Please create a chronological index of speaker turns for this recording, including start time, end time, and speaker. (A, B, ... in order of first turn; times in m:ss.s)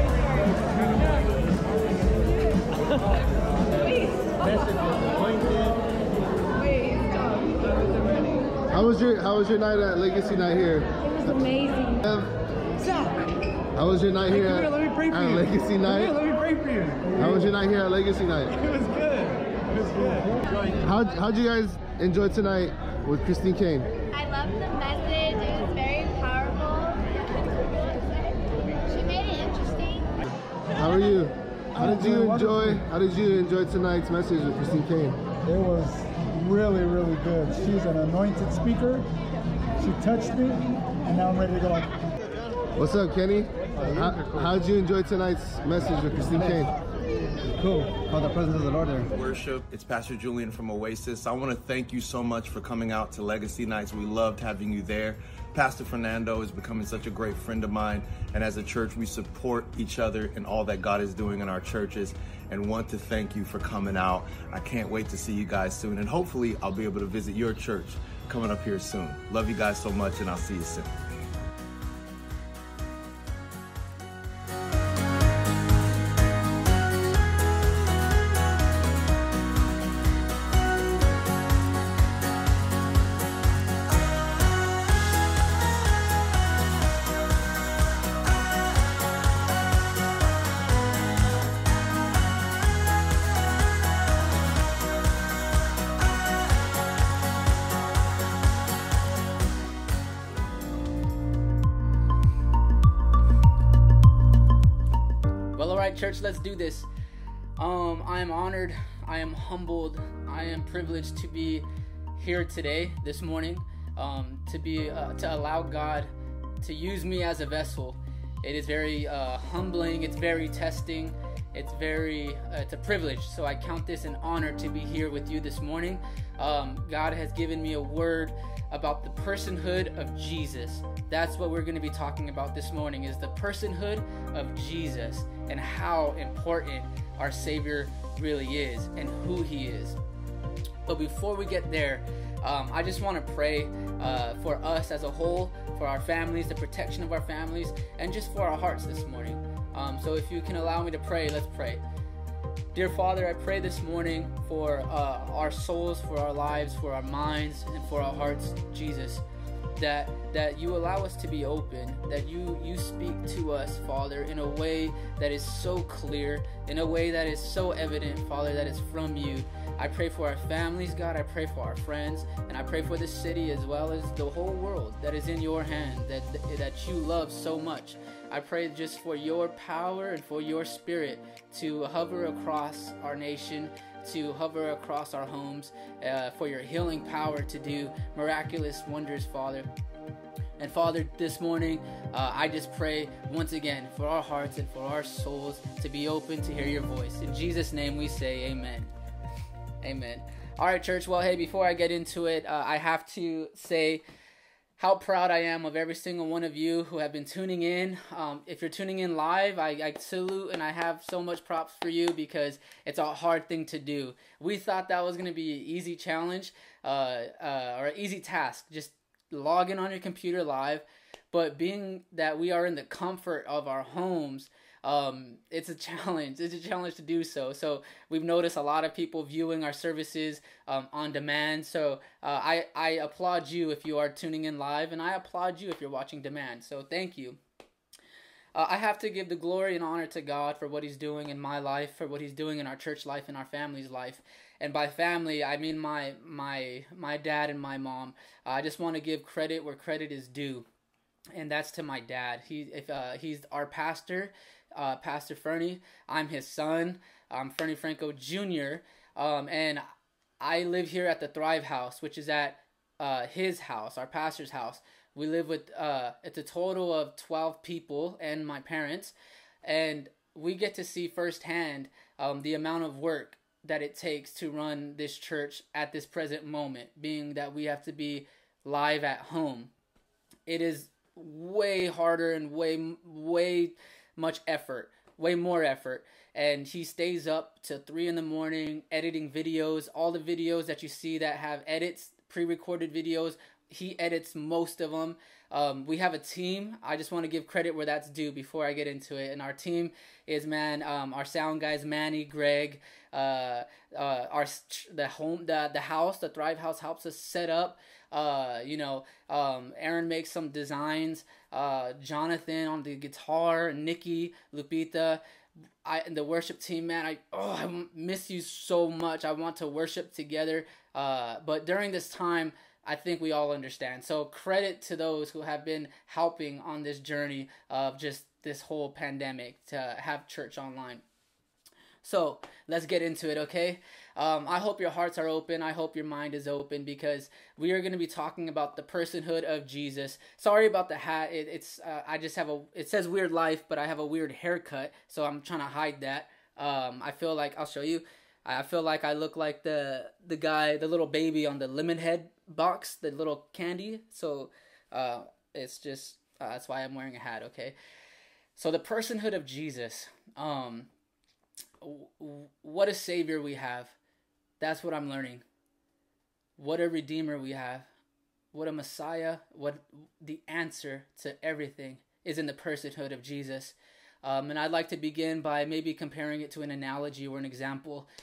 0:06.8-0:07.5 A
0:08.7-0:12.3 B
0:12.8-0:13.1 C
0:13.7-0:16.2 B
0:14.3-0:17.1 C
0:17.1-0:18.6 B
0:18.7-0:20.4 C
0:20.8-0:23.9 B
0:24.1-0:28.1 A
0:28.9-0:30.2 A
0:30.8-0:35.2 B
0:31.8-0:32.8 C
0:35.4-0:39.1 C
0:39.8-0:42.0 C
0:42.8-0:46.7 B
0:48.2-0:48.4 B
0:48.8-1:11.0 D
1:45.5-1:46.9 E
1:47.6-2:20.0 E
2:20.8-2:31.8 E
2:32.7-2:39.2 E
2:39.8-3:09.7 E
3:10.6-3:18.9 E
3:19.8-3:24.0 E
3:24.8-3:57.4 E
3:58.5-4:10.7 E
4:11.3-4:19.8 E
4:20.4-4:39.7 E
4:40.5-5:15.2 E
5:15.8-5:31.0 E
5:32.0-5:57.8 E
5:58.6-6:00.9 E
6:01.8-6:04.0 E
6:04.6-6:05.4 E
6:06.6-6:07.9 E
6:08.5-6:18.1 E